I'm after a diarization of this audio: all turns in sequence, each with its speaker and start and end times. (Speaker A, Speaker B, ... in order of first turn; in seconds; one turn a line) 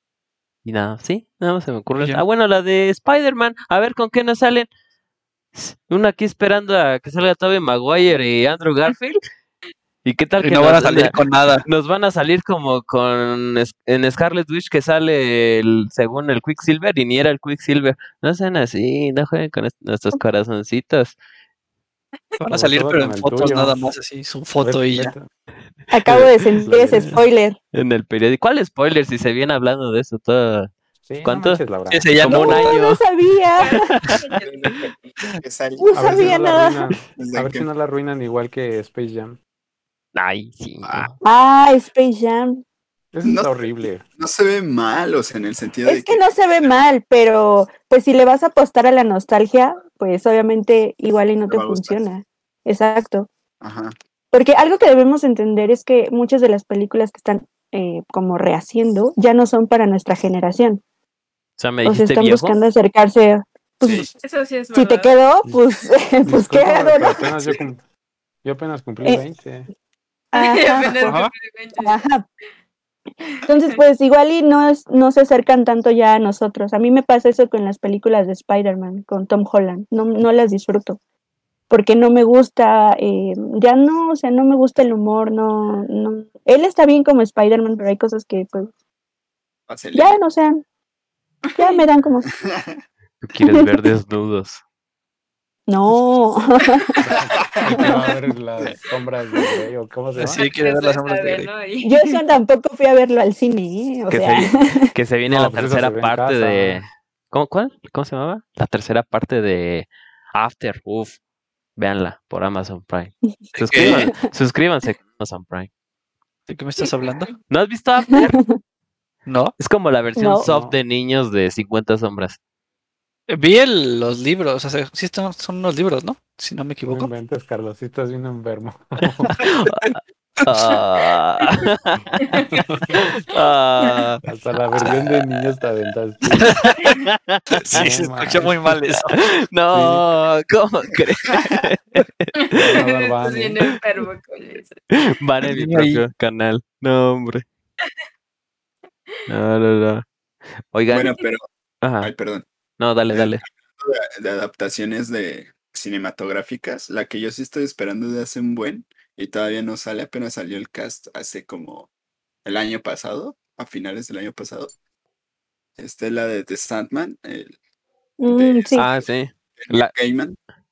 Speaker A: 0.7-4.7
Speaker B: 1.9-2.2
Speaker A: 5.5-9.2
Speaker A: 10.1-11.2
Speaker B: 10.4-11.7
Speaker A: 11.7-21.2
Speaker B: 22.4-25.1
Speaker C: 22.5-23.9
Speaker C: 24.6-25.3
Speaker D: 25.9-27.6
Speaker A: 26.1-26.3
Speaker C: 26.7-27.2
Speaker A: 26.9-27.2
Speaker A: 27.7-30.7
Speaker C: 31.1-32.1
Speaker A: 31.2-31.6
Speaker B: 31.9-32.7
Speaker A: 32.2-33.0
Speaker D: 32.3-33.9
Speaker E: 33.6-34.7
Speaker A: 33.7-34.2
Speaker F: 34.4-37.7
Speaker D: 35.8-36.8
Speaker C: 35.9-39.4
Speaker A: 40.1-41.1
Speaker D: 41.2-42.6
Speaker C: 43.1-44.0
Speaker F: 43.2-46.3
Speaker D: 45.9-53.3
Speaker F: 51.5-52.0
Speaker F: 53.6-54.0
Speaker D: 54.3-60.8
Speaker A: 61.6-62.6
Speaker D: 61.8-64.1
Speaker F: 63.8-64.1
Speaker E: 64.2-65.2
Speaker D: 64.7-67.3
Speaker C: 66.2-67.8
Speaker C: 68.4-69.7
Speaker D: 70.3-71.2
Speaker E: 70.3-72.0
Speaker B: 71.0-71.3
Speaker D: 71.8-72.2
Speaker D: 73.5-81.0
Speaker D: 81.7-88.7
Speaker F: 89.7-90.2
Speaker D: 90.0-90.6
Speaker E: 91.5-91.8
Speaker D: 91.6-92.3
Speaker F: 92.4-92.8
Speaker A: 93.2-94.6
Speaker D: 93.4-93.7
Speaker D: 95.7-96.9
Speaker C: 97.0-100.5
Speaker F: 97.4-98.0
Speaker B: 100.2-101.5
Speaker E: 100.3-102.2
Speaker D: 101.8-104.9
Speaker A: 104.1-111.2
Speaker C: 105.3-106.8
Speaker A: 111.8-115.7
Speaker B: 113.5-114.3
Speaker B: 116.5-117.3
Speaker A: 117.4-118.4
Speaker B: 119.3-119.6
Speaker A: 119.6-122.4
Speaker D: 120.2-120.5
Speaker C: 120.5-120.8
Speaker B: 123.3-127.1
Speaker C: 126.9-129.3
Speaker A: 129.1-134.2
Speaker C: 132.5-133.0
Speaker C: 134.2-136.6
Speaker A: 134.8-135.2
Speaker B: 136.3-136.8
Speaker A: 136.8-137.6
Speaker B: 137.7-139.2
Speaker C: 137.7-138.6
Speaker A: 139.1-142.8
Speaker C: 139.7-140.0
Speaker E: 142.4-144.8
Speaker C: 142.6-143.6
Speaker A: 144.9-147.4
Speaker B: 145.4-146.1
Speaker A: 149.3-150.0
Speaker A: 150.7-151.2
Speaker F: 150.9-151.5
Speaker A: 151.8-152.1
Speaker F: 152.0-152.5
Speaker A: 152.8-153.4
Speaker F: 153.1-161.9
Speaker F: 162.4-164.7
Speaker F: 165.8-167.6
Speaker D: 168.2-168.9
Speaker F: 168.3-170.4
Speaker A: 168.8-169.9